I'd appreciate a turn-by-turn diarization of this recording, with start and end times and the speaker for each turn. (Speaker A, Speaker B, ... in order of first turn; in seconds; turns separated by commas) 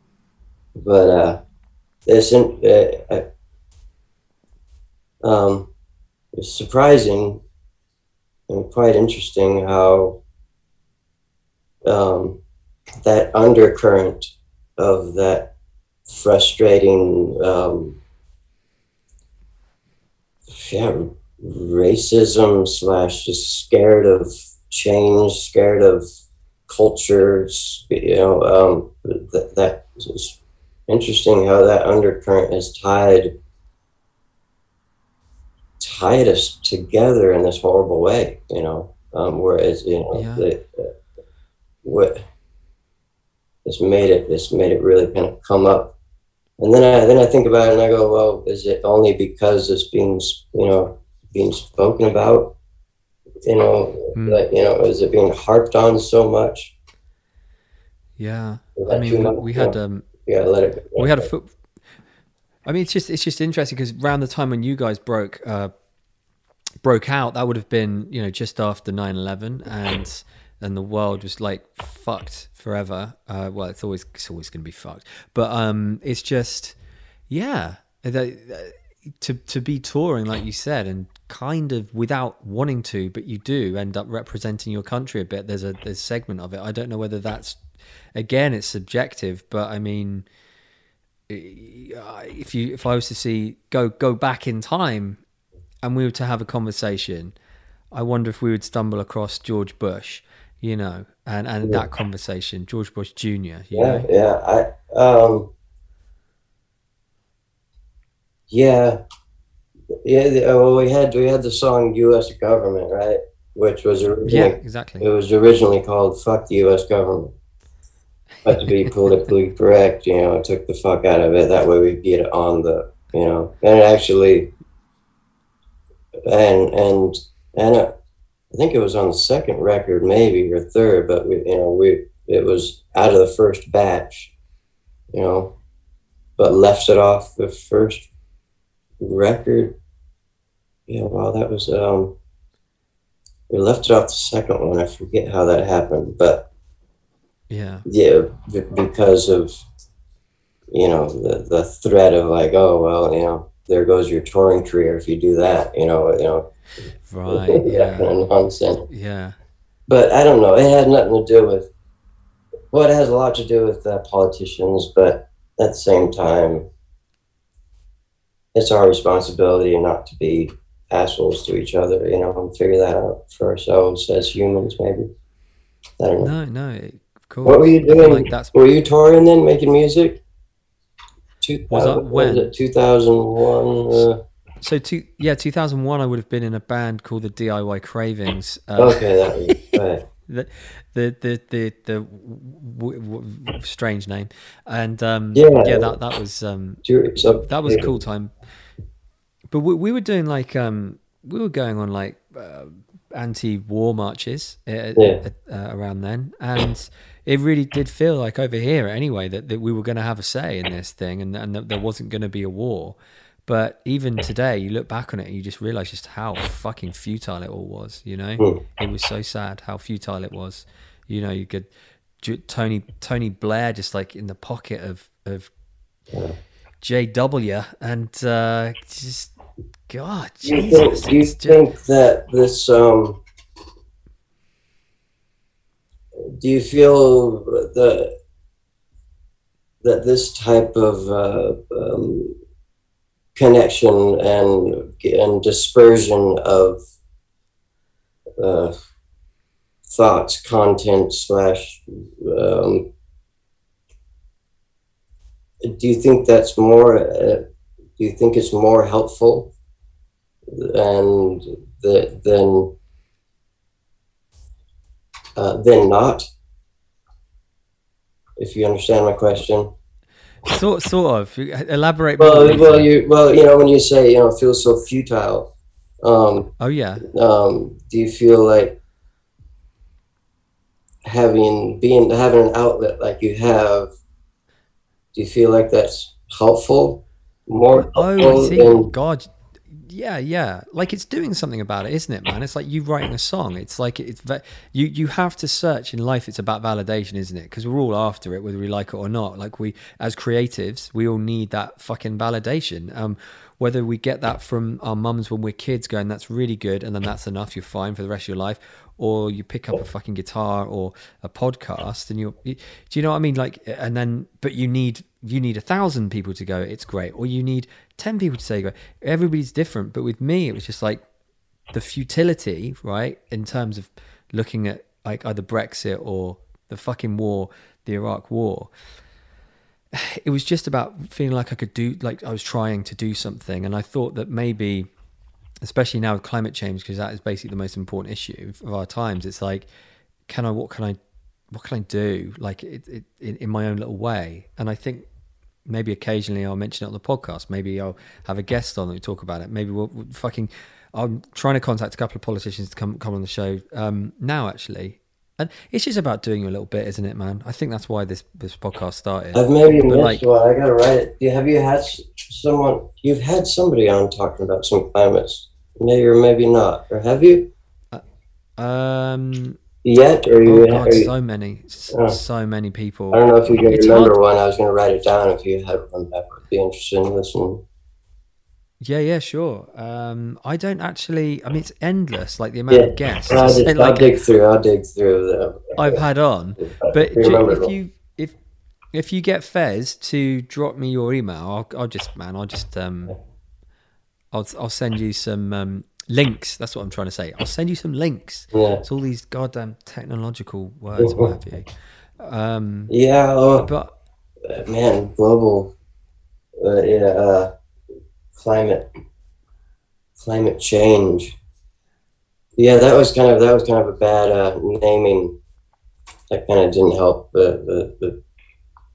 Speaker A: 0.8-1.4, Speaker A: 2.0-3.2, Speaker A: 5.2-5.7, Speaker A: 6.3-7.4, Speaker A: 8.5-10.2, Speaker A: 11.8-12.4, Speaker A: 13.0-15.5, Speaker A: 16.1-18.0, Speaker A: 20.5-26.1, Speaker A: 26.7-33.3, Speaker A: 35.8-40.9, Speaker B: 40.1-40.5, Speaker A: 41.8-42.2, Speaker A: 43.6-45.9, Speaker A: 46.6-52.5, Speaker A: 53.4-56.7, Speaker B: 54.1-54.4, Speaker B: 58.2-60.1, Speaker A: 58.8-61.3, Speaker B: 61.0-61.5, Speaker B: 62.6-65.7, Speaker B: 66.8-76.8, Speaker B: 77.3-87.6, Speaker B: 88.1-90.2, Speaker B: 91.3-95.2, Speaker B: 95.8-97.3, Speaker B: 97.9-104.1, Speaker A: 103.7-105.5, Speaker A: 108.5-109.0, Speaker A: 110.0-117.3, Speaker B: 114.2-115.0, Speaker A: 118.4-124.5, Speaker B: 118.5-119.0, Speaker A: 126.2-127.9, Speaker A: 128.5-134.3, Speaker A: 135.1-135.5, Speaker A: 136.4-138.1, Speaker A: 139.0-139.7, Speaker A: 140.9-142.1, Speaker A: 143.5-146.4, Speaker B: 147.5-147.8, Speaker A: 147.8-149.6, Speaker A: 150.7-156.5, Speaker B: 157.1-158.1, Speaker A: 157.3-158.8, Speaker B: 158.9-159.3, Speaker A: 159.9-161.7, Speaker A: 162.7-166.7, Speaker A: 168.5-175.1, Speaker A: 176.0-176.3, Speaker B: 176.2-178.6, Speaker A: 177.4-180.2, Speaker A: 181.4-184.2, Speaker B: 181.7-182.5, Speaker B: 184.6-196.8, Speaker A: 188.8-190.0, Speaker A: 195.3-196.0, Speaker A: 196.8-197.9, Speaker B: 197.4-198.3, Speaker B: 199.5-221.7, Speaker A: 204.9-205.2, Speaker B: 222.2-225.5, Speaker A: 226.1-226.4, Speaker B: 226.8-229.3, Speaker B: 229.9-231.6, Speaker A: 230.4-233.2, Speaker A: 236.2-238.1, Speaker A: 239.8-242.3, Speaker A: 243.3-246.8, Speaker A: 248.4-248.7, Speaker A: 249.9-252.8, Speaker A: 255.6-257.4, Speaker A: 258.0-259.5, Speaker A: 260.5-262.7, Speaker A: 265.4-266.2, Speaker A: 268.4-269.7, Speaker B: 270.4-272.9, Speaker A: 272.2-275.5, Speaker A: 276.0-276.5, Speaker B: 276.6-277.1, Speaker A: 277.0-278.8, Speaker A: 281.0-283.9, Speaker A: 285.1-288.9, Speaker B: 287.7-321.0, Speaker B: 321.7-328.7, Speaker B: 329.9-334.9, Speaker B: 335.6-339.7, Speaker B: 340.3-341.0, Speaker B: 341.5-345.1, Speaker B: 345.7-360.2, Speaker A: 359.3-367.5, Speaker B: 368.6-369.6, Speaker A: 369.8-371.1, Speaker B: 370.4-374.1, Speaker A: 371.9-372.2, Speaker A: 373.1-377.6, Speaker B: 378.8-384.2, Speaker A: 382.7-386.0, Speaker B: 385.8-388.3, Speaker A: 386.6-387.7, Speaker B: 388.9-393.1, Speaker B: 394.3-402.9, Speaker A: 398.5-398.8, Speaker A: 401.0-401.3, Speaker A: 402.9-403.7, Speaker B: 403.6-403.9, Speaker A: 404.4-405.7, Speaker A: 406.6-407.5, Speaker A: 408.4-408.8, Speaker A: 410.2-411.4, Speaker A: 412.6-415.3, Speaker A: 416.3-418.2